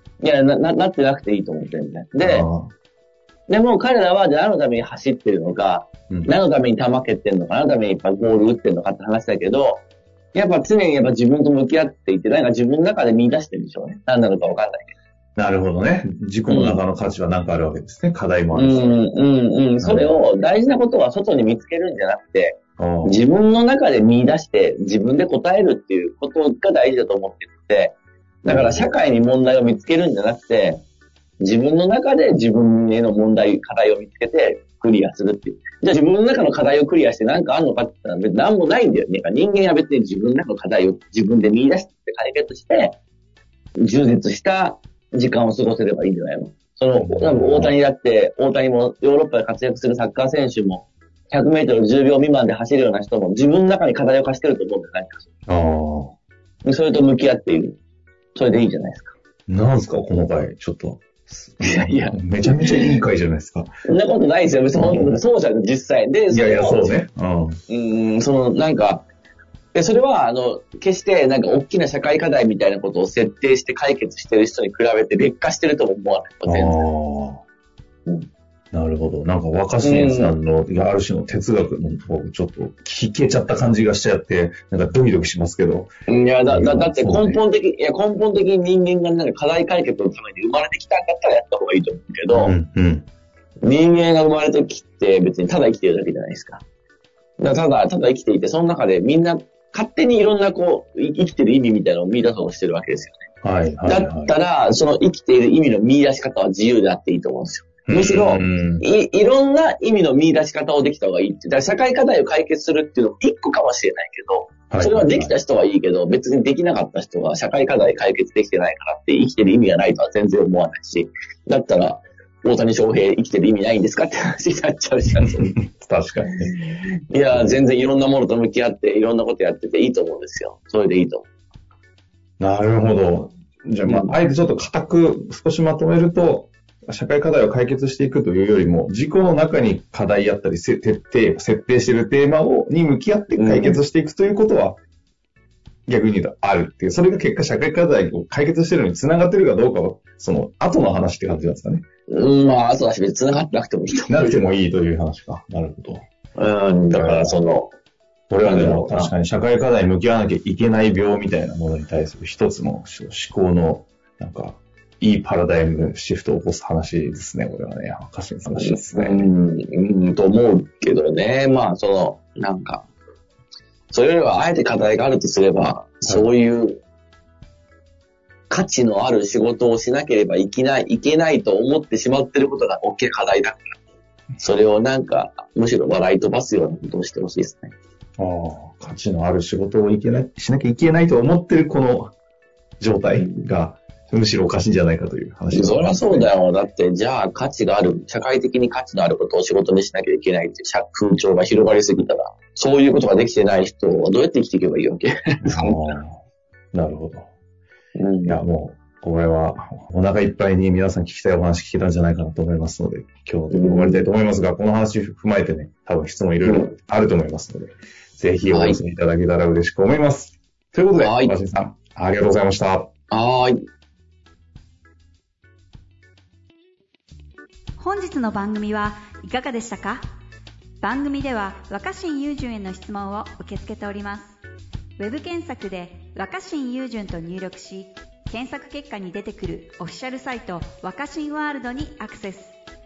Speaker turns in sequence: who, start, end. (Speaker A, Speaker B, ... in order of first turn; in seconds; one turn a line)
Speaker A: 0.2-2.5
Speaker B: 2.2-2.7
Speaker A: 3.5-9.8
Speaker A: 10.3-14.9
Speaker B: 15.3-19.0
Speaker A: 16.5-16.8
Speaker A: 18.5-30.8
Speaker B: 19.8-20.2
Speaker B: 22.8-23.2
Speaker B: 28.5-28.9
Speaker A: 31.4-43.0
Speaker A: 43.8-55.3
Speaker B: 46.9-47.7
Speaker B: 55.5-56.1
Speaker A: 56.6-57.8
Speaker A: 58.3-59.1
Speaker B: 59.5-63.7
Speaker A: 61.6-63.0
Speaker A: 63.9-67.0
Speaker B: 64.7-65.2
Speaker B: 66.3-67.6
Speaker A: 67.7-69.0
Speaker A: 69.7-76.8
Speaker B: 76.4-77.4
Speaker B: 78.7-85.9
Speaker A: 79.8-80.3
Speaker A: 86.1-92.5
Speaker B: 86.5-87.4
Speaker B: 92.3-93.1
Speaker A: 93.6-96.6
Speaker A: 97.4-103.2
Speaker B: 103.4-104.3
Speaker A: 103.8-125.5
Speaker B: 107.9-108.8
Speaker B: 114.7-115.3
Speaker B: 125.2-126.5
Speaker A: 126.5-131.2
Speaker B: 127.3-127.6
Speaker B: 132.4-144.8
Speaker A: 133.8-134.1
Speaker A: 143.3-143.8
Speaker B: 145.9-151.8
Speaker A: 152.1-154.4
Speaker B: 154.1-156.0
Speaker A: 156.3-157.7
Speaker B: 156.9-157.4
Speaker B: 158.3-169.3
Speaker A: 158.4-159.1
Speaker A: 168.5-172.9
Speaker A: 173.9-176.8
Speaker A: 178.5-183.8
Speaker A: 184.4-187.7
Speaker B: 188.2-192.1
Speaker B: 192.8-196.3
Speaker A: 195.5-205.8
Speaker B: 205.4-206.2
Speaker B: 206.7-207.3
Speaker A: 207.9-208.4
Speaker B: 208.2-222.9
Speaker A: 213.5-214.1
Speaker A: 216.4-216.7
Speaker A: 218.5-218.8
Speaker A: 220.9-221.3
Speaker A: 223.1-223.6
Speaker C: 227.8-230.0
Speaker C: 230.8-234.4
Speaker C: 235.0-242.5